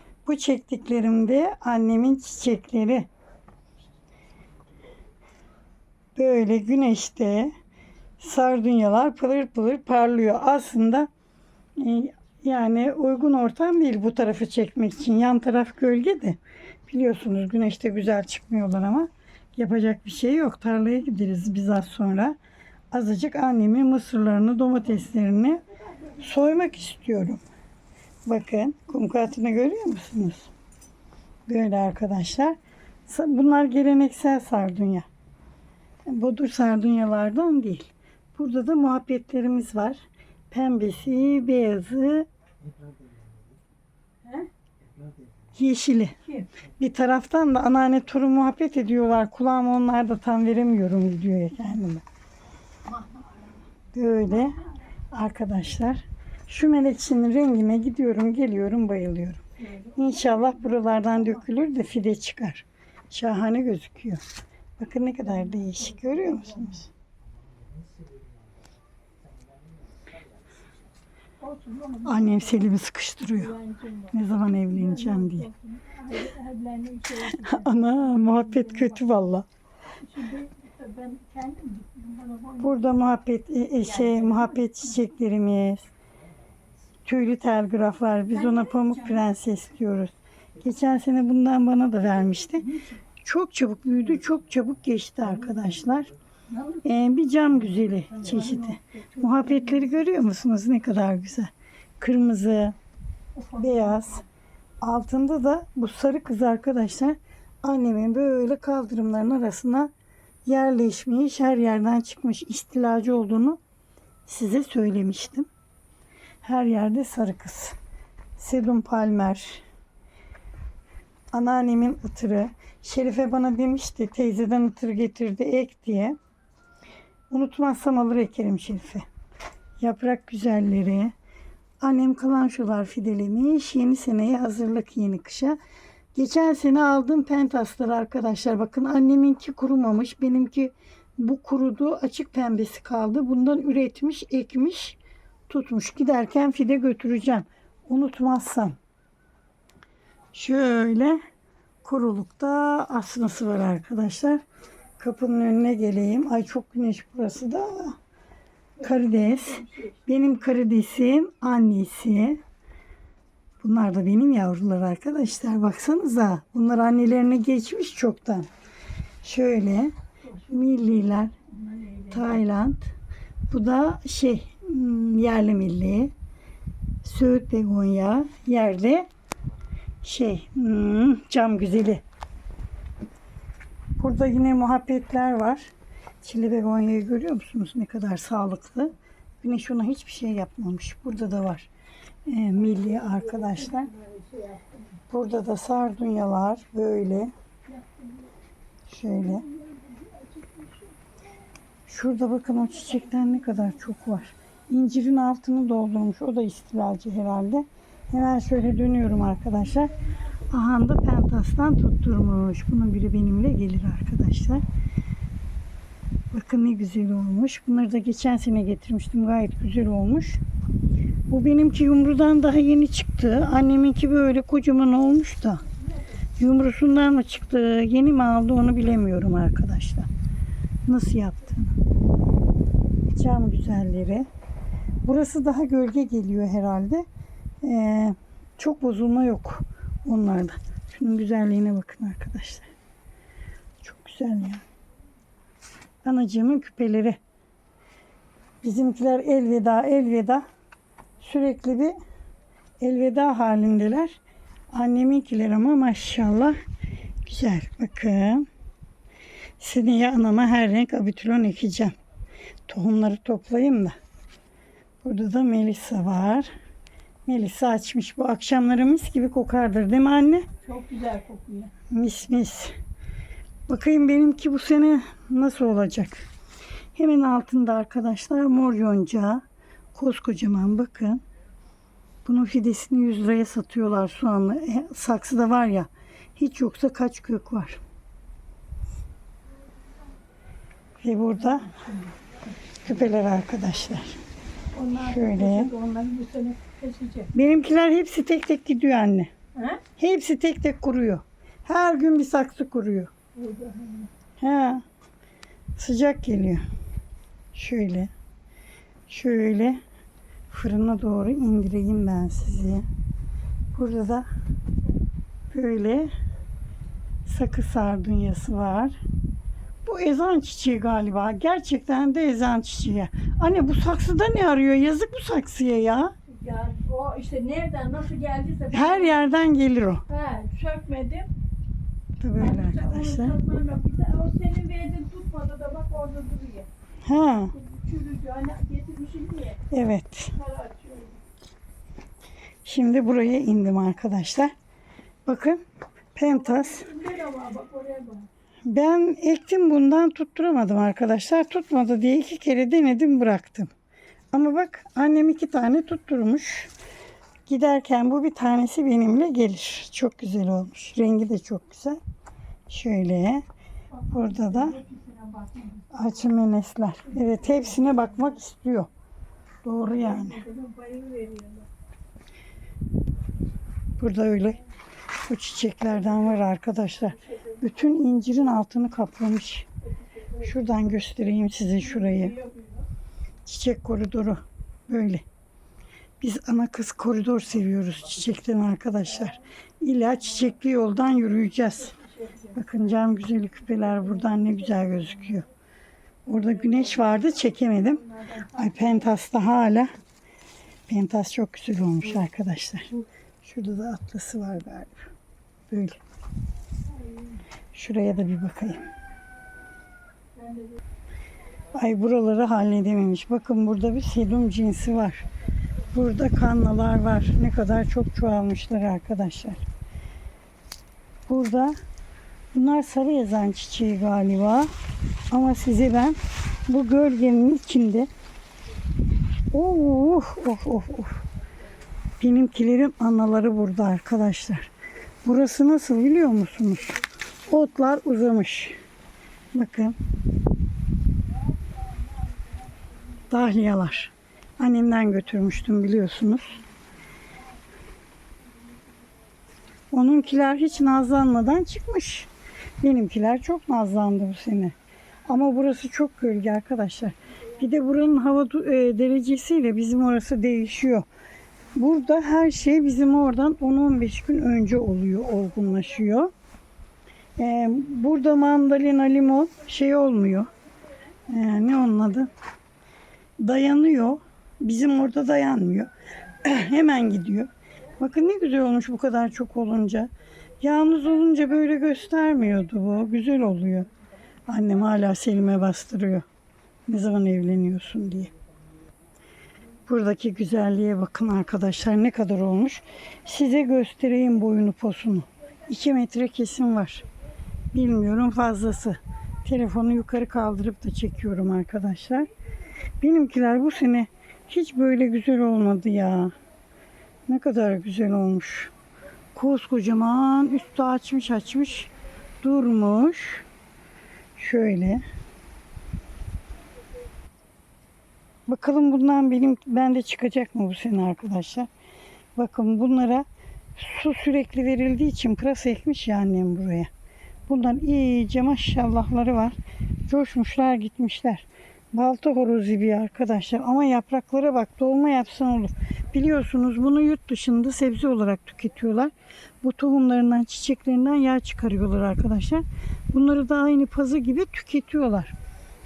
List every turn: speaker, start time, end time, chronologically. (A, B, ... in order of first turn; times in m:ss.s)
0:00.2-0:03.1 A
0:06.2-0:07.5 A
0:08.2-0:11.1 A
0:11.8-0:22.4 A
0:22.9-0:25.6 A
0:26.2-0:27.4 A
0:28.2-0:30.5 A
0:31.5-0:35.1 A
0:36.0-0:42.3 A
0:44.2-0:44.5 B
0:45.5-0:46.2 A
0:46.8-0:52.0 A
0:53.9-0:59.4 A
0:59.6-1:00.0 B
0:59.9-1:04.2 A
1:04.8-1:06.9 A
1:05.4-1:06.6 B
1:11.4-1:12.7 B
1:12.0-1:13.6 A
1:13.3-1:14.1 B
1:14.1-1:15.5 A
1:14.7-1:19.0 B
1:17.2-1:19.4 A
1:20.0-1:22.8 B
1:22.6-1:25.9 A
1:23.8-1:24.6 B
1:27.0-1:36.1 A
1:28.3-1:29.2 B
1:36.5-1:36.8 B
1:36.8-1:42.8 A
1:38.1-1:39.8 B
1:43.4-1:44.2 B
1:43.6-1:44.2 A
1:44.8-1:49.9 A
1:50.4-1:53.6 A
1:54.2-1:55.5 A
1:56.4-1:57.8 A
1:58.4-1:59.6 A
2:01.3-2:06.2 A
2:07.3-2:09.0 A
2:09.8-2:11.1 A
2:11.8-2:15.6 A
2:16.1-2:25.0 A
2:25.5-2:28.8 A
2:30.3-2:31.2 A
2:31.8-2:34.4 A
2:35.0-2:38.0 A
2:38.8-2:42.4 A
2:38.9-2:39.9 B
2:43.6-2:48.5 A
2:49.2-2:51.3 A
2:51.5-2:52.2 B
2:52.1-2:52.9 A
2:53.5-2:56.1 A
2:57.0-2:59.1 A
3:00.0-3:02.0 A
3:04.0-3:05.7 A
3:06.2-3:11.7 A
3:12.3-3:13.9 A
3:12.7-3:14.8 B
3:15.1-3:17.3 A
3:17.7-3:18.3 B
3:18.9-3:19.4 A
3:19.3-3:20.9 B
3:21.9-3:29.9 A
3:30.5-3:34.6 A
3:36.3-3:40.4 A
3:41.3-3:45.6 A
3:46.4-3:50.1 A
3:50.8-3:51.8 A
3:53.1-3:54.2 A
3:55.0-3:57.0 A
3:57.6-4:02.7 A
4:03.8-4:04.6 A
4:06.0-4:07.2 A
4:08.6-4:10.4 A
4:11.2-4:11.9 A
4:12.8-4:14.2 A
4:14.7-4:16.6 A
4:17.2-4:18.5 A
4:19.6-4:21.9 A
4:22.7-4:23.9 A
4:25.0-4:26.5 A
4:27.2-4:30.5 A
4:30.6-4:31.7 B
4:31.9-4:32.7 A
4:33.7-4:36.2 A
4:36.9-4:39.4 A
4:39.9-4:41.2 A
4:42.2-4:47.8 A
4:51.0-4:51.7 A
4:51.5-4:52.4 B
4:52.8-4:54.2 A
4:54.7-4:57.3 B
4:54.9-4:55.7 A
4:57.3-4:59.3 A
4:59.6-4:59.8 B
5:00.0-5:03.1 A
5:03.3-5:04.1 B
5:04.4-5:04.8 A
5:05.8-5:06.6 A
5:07.5-5:08.1 A
5:09.1-5:09.8 A
5:10.5-5:12.8 A
5:13.7-5:14.3 A
5:15.5-5:16.1 A
5:17.2-5:19.0 A
5:19.8-5:26.1 A
5:26.3-5:29.2 B
5:28.7-5:30.0 A
5:30.1-5:31.3 B
5:32.2-5:33.4 A
5:32.4-5:36.7 B
5:37.0-5:37.5 A
5:37.5-5:39.6 B
5:39.7-5:40.4 A
5:40.4-5:41.2 B
5:42.6-5:44.5 A
5:45.2-5:45.6 A
5:46.1-5:46.9 A
5:46.3-5:48.3 B
5:48.6-5:53.7 A
5:54.3-5:56.7 A
5:57.4-6:02.0 A
6:02.7-6:03.4 A
6:04.0-6:05.9 B
6:04.1-6:04.8 A
6:05.9-6:08.9 A
6:07.1-6:08.0 B
6:09.6-6:10.4 A
6:09.9-6:11.7 B
6:14.0-6:14.6 A
6:15.2-6:19.7 A
6:20.2-6:20.4 B
6:20.4-6:22.4 A
6:21.8-6:22.8 B
6:23.4-6:25.2 A
6:26.2-6:32.0 A
6:31.9-6:32.6 B
6:32.5-6:35.5 A
6:36.2-6:39.9 A
6:38.0-6:39.0 B
6:40.9-6:42.9 A
6:43.4-6:45.1 A
6:45.7-6:46.0 A
6:47.0-6:47.4 B
6:47.7-6:48.8 A
6:50.4-6:50.8 B
6:51.7-6:55.2 A
6:55.9-6:59.6 A
7:01.3-7:01.8 A
7:02.5-7:04.7 A
7:05.3-7:08.1 A
7:09.5-7:11.2 A
7:12.2-7:14.7 A
7:15.2-7:18.8 A
7:19.5-7:20.0 A
7:23.3-7:26.6 A
7:29.9-7:32.3 A
7:32.8-7:34.7 A
7:35.2-7:41.1 A
7:41.7-7:46.3 A
7:47.4-7:50.5 A
7:51.3-7:52.3 A
7:53.4-7:55.9 A
7:56.4-8:03.9 A
8:04.5-8:06.2 A
8:06.9-8:08.3 A
8:09.8-8:17.0 A
8:17.7-8:22.3 A
8:23.0-8:26.3 A
8:27.3-8:28.7 A
8:29.3-8:33.4 A
8:34.4-8:35.0 A
8:38.5-8:41.7 A
8:42.4-8:46.9 A
8:47.5-9:05.4 A